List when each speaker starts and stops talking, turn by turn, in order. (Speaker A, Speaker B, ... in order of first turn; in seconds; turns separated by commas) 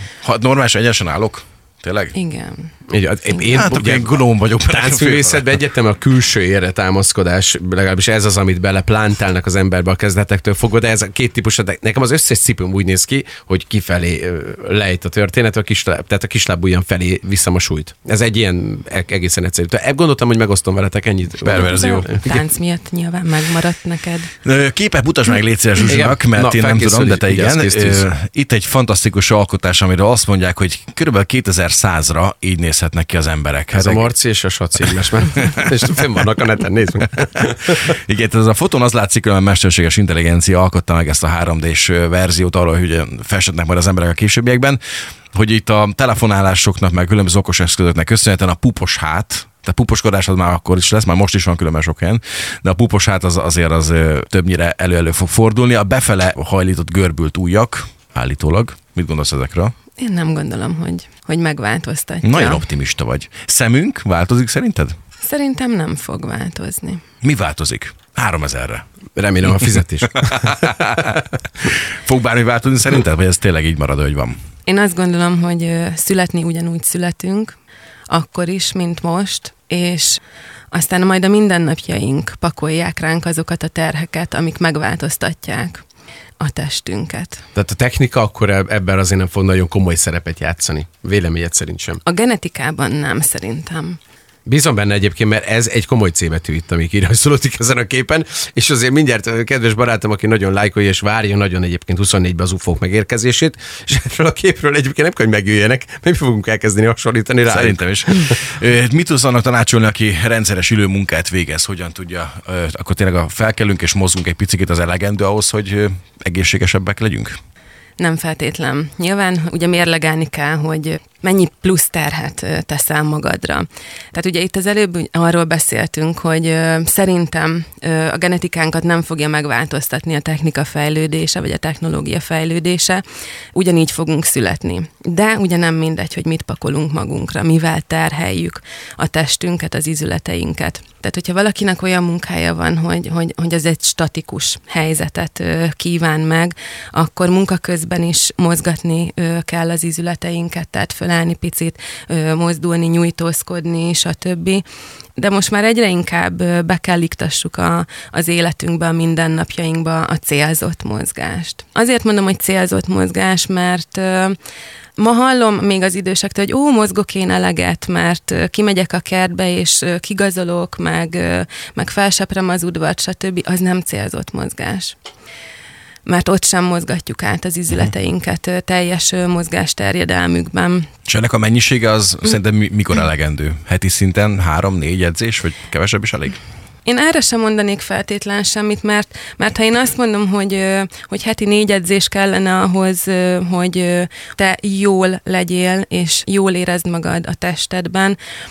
Speaker A: 0.2-2.2, Speaker B: 2.2-2.6, Speaker C: 2.9-22.5, Speaker A: 3.5-5.5, Speaker A: 21.4-22.2, Speaker B: 22.4-24.2, Speaker A: 24.4-34.1, Speaker C: 25.9-28.1, Speaker C: 33.7-37.9, Speaker A: 37.7-44.8, Speaker A: 45.3-59.7, Speaker B: 60.0-62.2, Speaker A: 62.2-65.0, Speaker B: 65.2-67.0, Speaker A: 67.2-68.8, Speaker C: 69.2-70.5, Speaker A: 70.3-74.4, Speaker B: 74.7-77.5, Speaker B: 78.1-80.2, Speaker B: 80.7-85.8, Speaker B: 86.4-87.4, Speaker C: 87.5-92.0, Speaker B: 92.1-94.0, Speaker C: 94.5-108.3, Speaker A: 107.5-117.4, Speaker B: 118.0-133.0, Speaker B: 133.6-154.6, Speaker B: 155.2-164.3, Speaker B: 165.0-174.9, Speaker B: 176.1-180.9, Speaker A: 181.1-186.4, Speaker B: 186.9-198.2